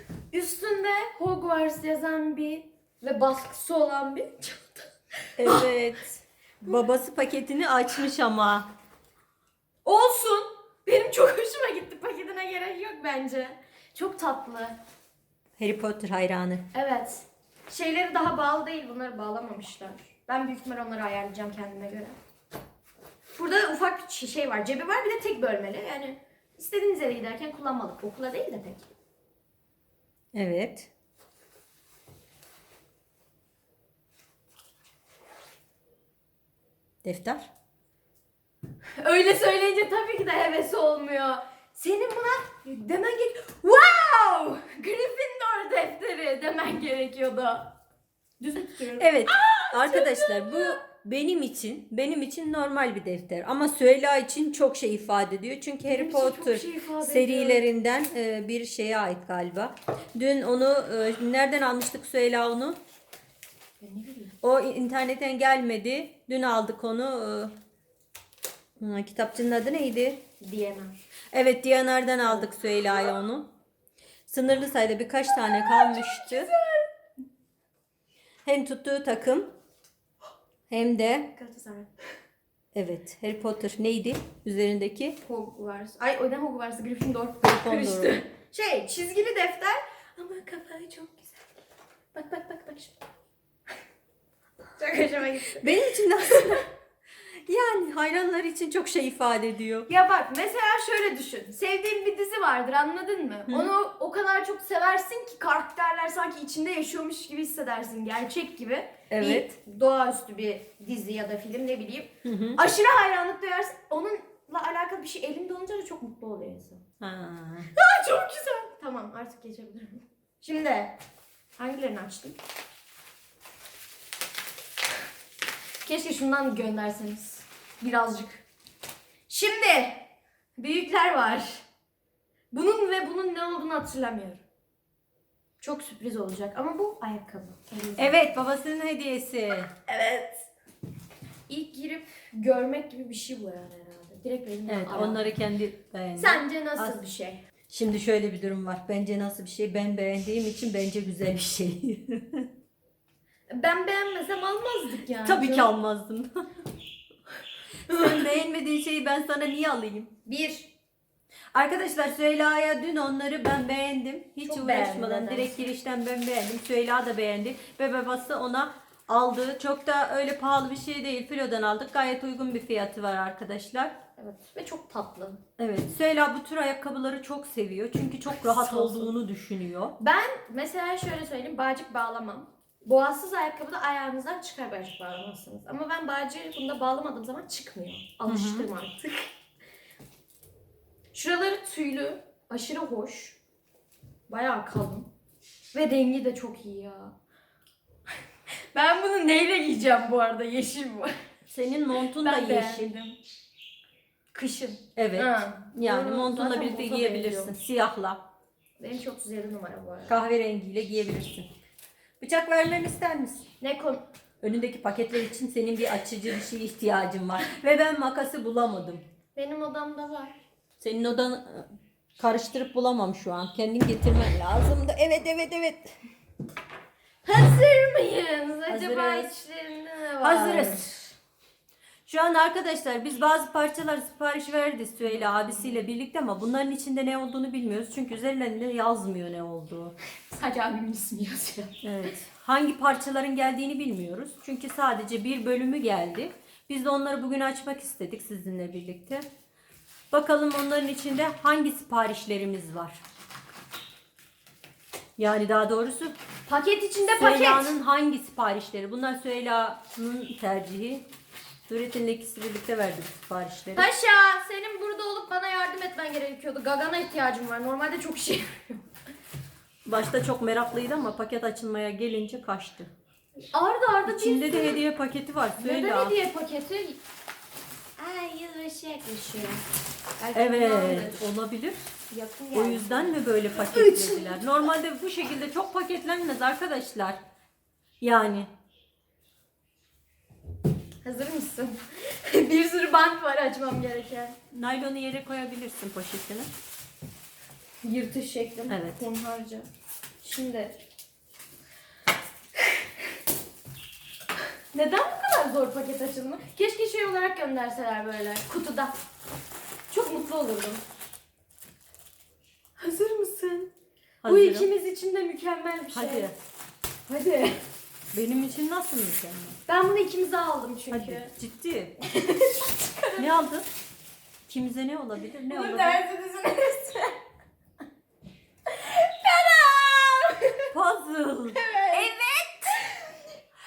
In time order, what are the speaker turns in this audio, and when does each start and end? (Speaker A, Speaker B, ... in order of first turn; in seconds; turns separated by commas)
Speaker A: 0.3-5.7, Speaker B: 5.4-8.7, Speaker A: 9.8-14.8, Speaker B: 15.6-16.6, Speaker A: 16.7-22.2, Speaker A: 23.3-28.9, Speaker B: 30.3-30.9, Speaker B: 37.0-37.5, Speaker A: 39.0-47.8, Speaker A: 48.4-50.8, Speaker B: 49.0-62.8, Speaker A: 55.8-57.6, Speaker A: 63.8-64.4, Speaker B: 64.4-67.5, Speaker B: 68.8-70.2, Speaker A: 70.4-71.0, Speaker B: 71.3-73.5, Speaker B: 74.3-76.5, Speaker A: 75.3-76.9, Speaker B: 78.4-79.5, Speaker B: 80.7-81.3, Speaker A: 81.3-81.9, Speaker B: 82.7-85.2, Speaker A: 85.2-91.5, Speaker B: 87.4-88.1, Speaker A: 92.1-93.0, Speaker A: 94.8-95.7, Speaker B: 95.5-96.6, Speaker A: 96.2-96.6, Speaker B: 97.5-99.9, Speaker A: 99.9-116.8, Speaker B: 103.5-103.7, Speaker B: 109.1-109.5, Speaker B: 112.2-112.6, Speaker B: 117.0-117.7, Speaker A: 117.7-121.0, Speaker A: 121.6-122.4, Speaker A: 125.8-128.4, Speaker A: 129.3-130.1, Speaker A: 130.6-131.6, Speaker A: 132.5-134.4, Speaker A: 135.6-138.3, Speaker B: 138.0-139.7, Speaker A: 139.9-140.5, Speaker A: 141.5-145.3, Speaker B: 144.7-147.0, Speaker A: 146.2-147.4, Speaker B: 147.7-152.5, Speaker A: 153.5-155.7, Speaker B: 155.2-156.4, Speaker B: 157.9-160.1, Speaker A: 157.9-158.3, Speaker A: 160.2-160.7, Speaker B: 161.5-173.9, Speaker A: 164.4-165.7, Speaker A: 174.2-175.4, Speaker B: 175.6-179.9, Speaker A: 178.4-179.1, Speaker A: 180.0-189.3, Speaker B: 188.3-188.7, Speaker A: 191.1-193.4, Speaker A: 194.3-195.1, Speaker A: 195.7-197.1, Speaker A: 198.7-201.1, Speaker B: 201.5-202.9, Speaker A: 202.2-203.2, Speaker A: 204.3-207.5, Speaker B: 204.9-208.2, Speaker A: 208.8-210.1, Speaker B: 210.1-211.5, Speaker B: 212.2-213.4, Speaker A: 213.6-214.0, Speaker B: 214.4-219.0, Speaker A: 219.3-220.4, Speaker B: 220.8-225.9, Speaker A: 227.2-231.0, Speaker B: 228.7-229.3, Speaker B: 230.2-230.9, Speaker B: 232.1-239.9, Speaker A: 235.0-235.8, Speaker A: 240.3-241.8, Speaker B: 241.8-249.2, Speaker B: 250.1-253.0, Speaker B: 255.2-256.1, Speaker A: 256.5-257.7, Speaker B: 257.1-261.1, Speaker B: 261.7-263.9, Speaker A: 263.7-268.9, Speaker B: 269.9-272.9, Speaker A: 273.5-274.8, Speaker B: 274.1-276.1, Speaker A: 275.6-277.0, Speaker A: 278.0-279.6, Speaker A: 280.2-281.2, Speaker B: 280.3-281.8, Speaker A: 282.1-284.4, Speaker B: 282.5-287.2, Speaker B: 288.0-288.5, Speaker A: 291.0-294.4, Speaker B: 294.5-296.5, Speaker A: 297.8-299.7, Speaker B: 298.7-299.0, Speaker A: 300.2-300.8, Speaker A: 304.7-308.9, Speaker A: 309.9-310.8, Speaker A: 312.8-313.7, Speaker B: 314.2-314.7, Speaker A: 314.2-316.3, Speaker B: 315.9-316.3, Speaker A: 317.1-317.6, Speaker B: 318.1-319.6, Speaker A: 319.7-321.3, Speaker B: 320.9-321.9, Speaker A: 322.0-323.4, Speaker B: 323.2-323.7, Speaker B: 324.5-326.0, Speaker A: 325.5-327.1, Speaker A: 328.7-330.7, Speaker B: 330.7-332.6, Speaker A: 331.5-333.1